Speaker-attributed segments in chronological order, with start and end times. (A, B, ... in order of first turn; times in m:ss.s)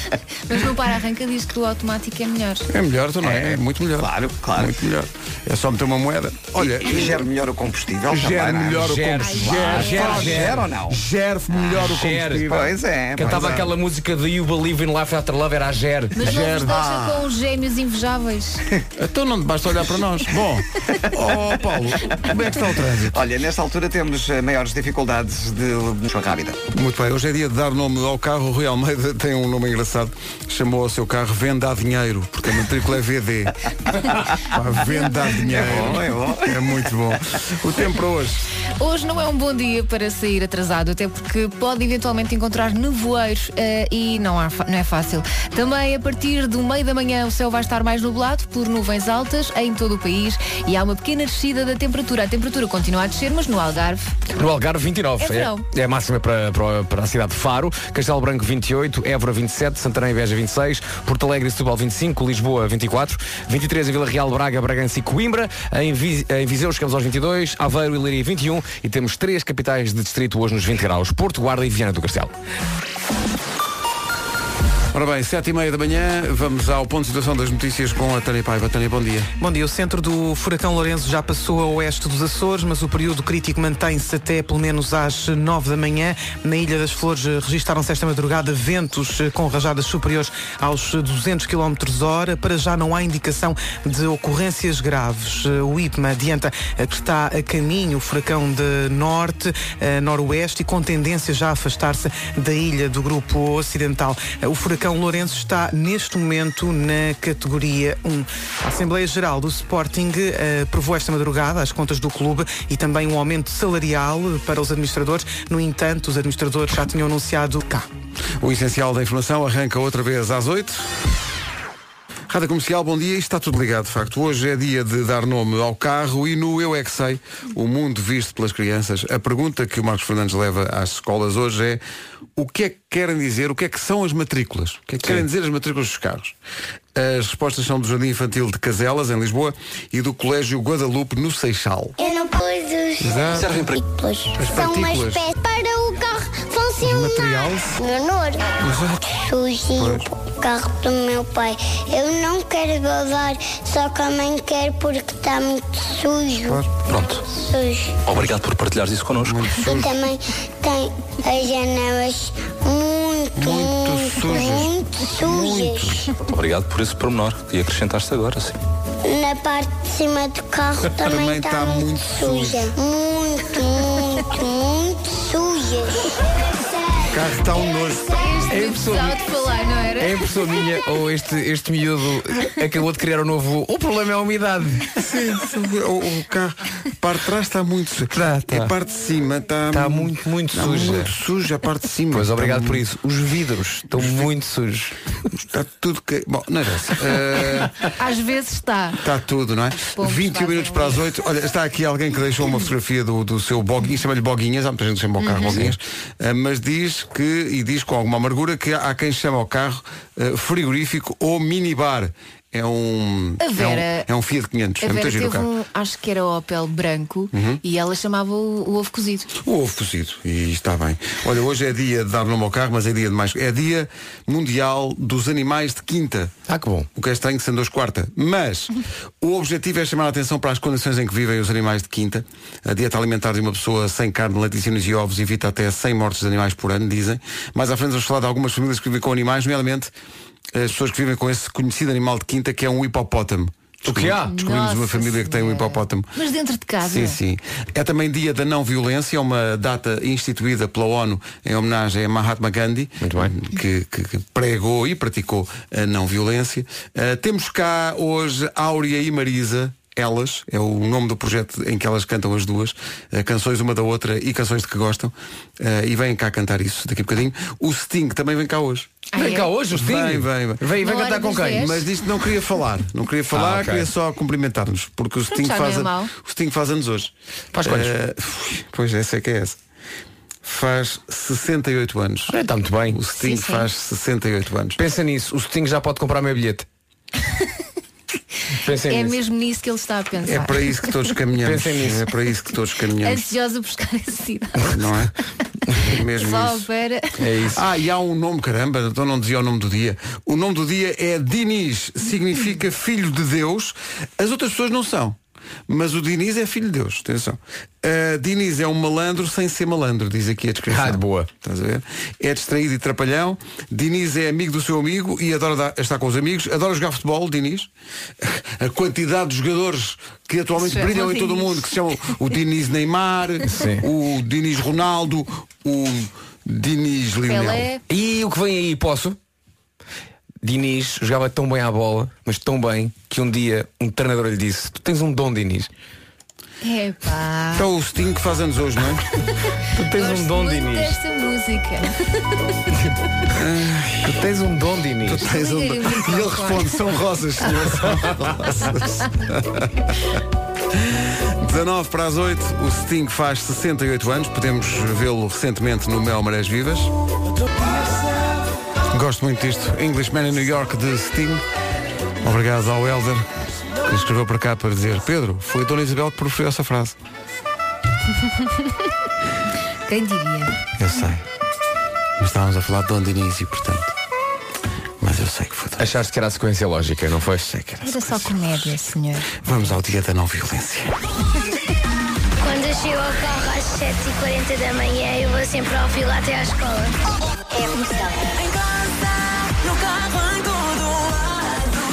0:00.4-0:02.7 A
0:02.7-0:07.2 B
0:03.2-0:04.8 C
0:06.6-0:11.0 C
0:08.1-0:10.7 D
0:08.7-0:13.7 B
0:09.2-0:10.5 A
0:11.6-0:12.6 D
0:11.7-0:13.7 C
0:13.2-0:16.2 D
0:16.2-0:18.6 A
0:16.2-0:17.2 B
0:19.0-0:23.2 B
0:23.1-0:26.6 C
0:26.7-0:33.5 B
0:34.4-0:38.4 B
0:35.4-0:36.7 C
0:38.8-0:54.2 A
0:54.3-1:12.3 D
0:55.2-0:55.6 A
1:14.9-1:19.3 B
1:19.4-1:57.9 E
1:58.4-2:00.9 B
2:02.3-2:11.8 B
2:12.4-2:16.4 B
2:16.9-2:22.0 B
2:22.0-2:28.5 F
2:23.0-2:23.7 B
2:24.4-2:25.2 B
2:26.8-2:27.8 B
2:28.6-2:29.2 B
2:29.1-2:36.6 F
2:29.8-2:30.0 B
2:36.8-2:37.2 G
2:37.2-2:38.0 F
2:38.0-2:39.4 G
2:39.2-2:40.0 B
2:39.5-2:46.0 F
2:43.4-2:46.1 B
2:46.3-2:48.6 G
2:49.0-2:56.1 F
2:50.8-2:52.7 B
2:57.1-2:58.2 B
2:58.1-3:00.2 A
2:58.5-2:59.2 D
3:00.0-3:04.9 D
3:04.9-3:12.8 B
3:08.1-3:08.7 D
3:09.7-3:11.1 D
3:12.1-3:14.9 D
3:14.0-3:14.3 B
3:15.3-3:17.7 B
3:18.0-3:19.0 A
3:19.0-3:35.5 B
3:19.7-3:21.0 A
3:25.2-3:25.7 A
3:33.4-3:34.0 A
3:34.8-3:39.3 A
3:37.3-3:37.6 B
3:39.3-3:46.3 B
3:46.5-3:46.9 D
3:46.9-3:59.9 B
4:00.5-4:06.1 B
4:03.8-4:04.3 D
4:04.3-4:07.2 A
4:06.8-4:28.9 B
4:13.0-4:13.3 D
4:29.1-4:29.5 A
4:29.1-4:31.7 D
4:29.7-4:30.6 B
4:30.8-4:31.9 A
4:31.5-4:37.1 B
4:33.3-4:33.9 D
4:35.3-4:36.1 A
4:37.5-4:37.9 D
4:37.6-4:39.6 B
4:40.4-4:42.4 B
4:42.3-4:43.0 D
4:42.9-4:44.8 B
4:43.2-4:43.6 A
4:44.8-4:46.6 D
4:48.6-4:49.2 D
4:48.9-4:50.9 A
4:50.2-4:53.3 B
4:51.4-4:52.0 D
4:53.0-4:54.8 A
4:54.7-4:55.1 B
4:55.8-4:56.7 B
4:56.2-4:57.1 A
4:57.2-4:57.6 D
4:57.5-5:05.2 B
5:05.7-5:17.7 B
5:10.7-5:11.3 D
5:18.2-5:27.6 B
5:20.6-5:21.6 A
5:23.5-5:23.8 D
5:27.3-5:27.8 A
5:27.9-5:29.2 D
5:30.4-5:35.7 D
5:36.6-5:37.7 A
5:37.6-5:39.1 B
5:39.7-5:41.0 D
5:39.9-5:42.2 A
5:43.3-5:44.3 B
5:44.0-5:45.2 D
5:45.0-5:49.9 B
5:45.2-5:46.8 A
5:50.9-5:56.9 B
5:58.9-6:01.4 B
6:02.2-6:03.3 B
6:03.8-6:07.0 B
6:08.3-6:08.7 A
6:09.9-6:10.6 A
6:10.8-6:11.2 B
6:12.2-6:13.9 B
6:15.0-6:15.9 B
6:15.8-6:17.5 D
6:17.5-6:18.5 B
6:17.8-6:19.3 A
6:19.4-6:20.9 B
6:22.4-6:26.9 H